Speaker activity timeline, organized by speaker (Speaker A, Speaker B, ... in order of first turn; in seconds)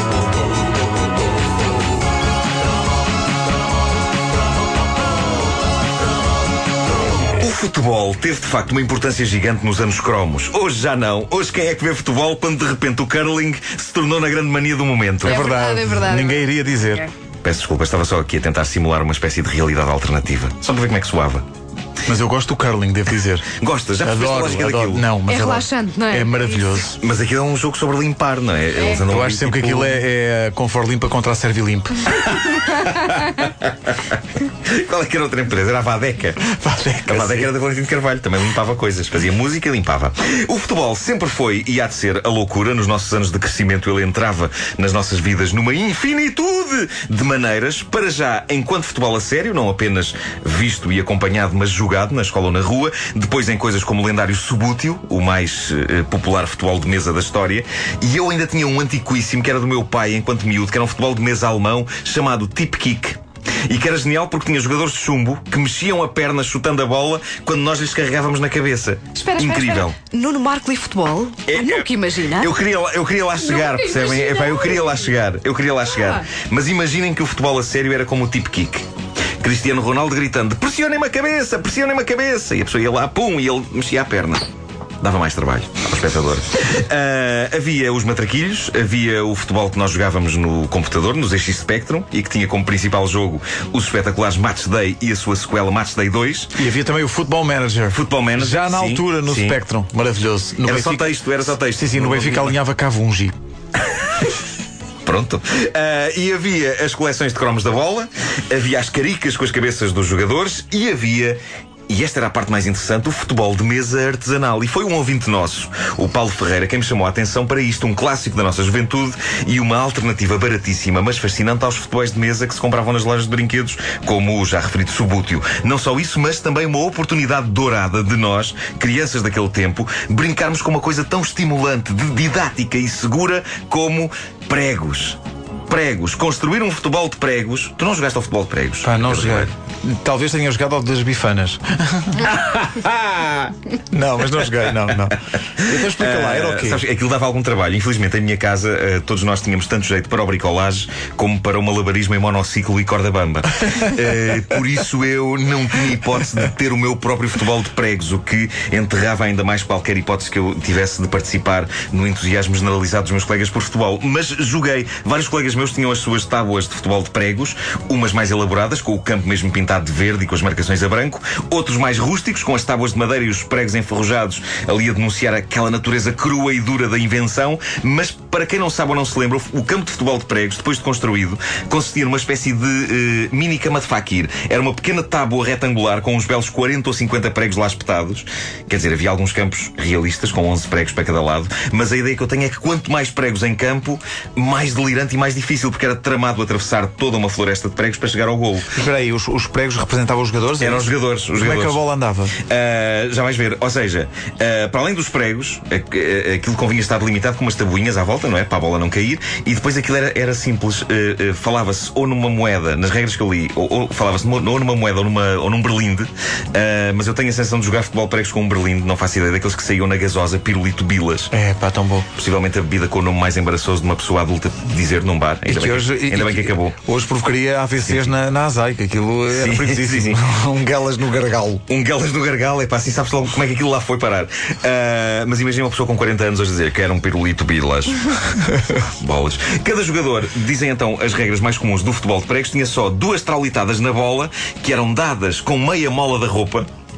Speaker A: 7.4-15.4, 17.4-21.4, 23.6-25.1, 27.0-30.0, 32.7-34.0, 34.6-36.4, 37.1-70.0, 71.5-78.8, 79.4-84.4, 85.0-96.5, 97.9-99.6, 100.6-102.5, 105.0-111.4, 111.9-139.5, 142.6-143.5, 145.6-198.7, 200.6-201.8, 202.4-221.3, 222.1-226.8, 227.8-228.1, 229.3-230.2, 231.7-238.1, 238.8-246.7
Speaker B: 15.2-17.1, 22.1-23.5, 24.0-27.0, 29.1-32.2, 36.4-37.5, 96.5-103.3, 138.8-142.6, 143.9-146.8, 198.7-202.3, 221.3-222.1, 225.4-231.6
Speaker C: 15.2-17.1, 25.3-26.8, 69.2-72.5, 73.4-75.0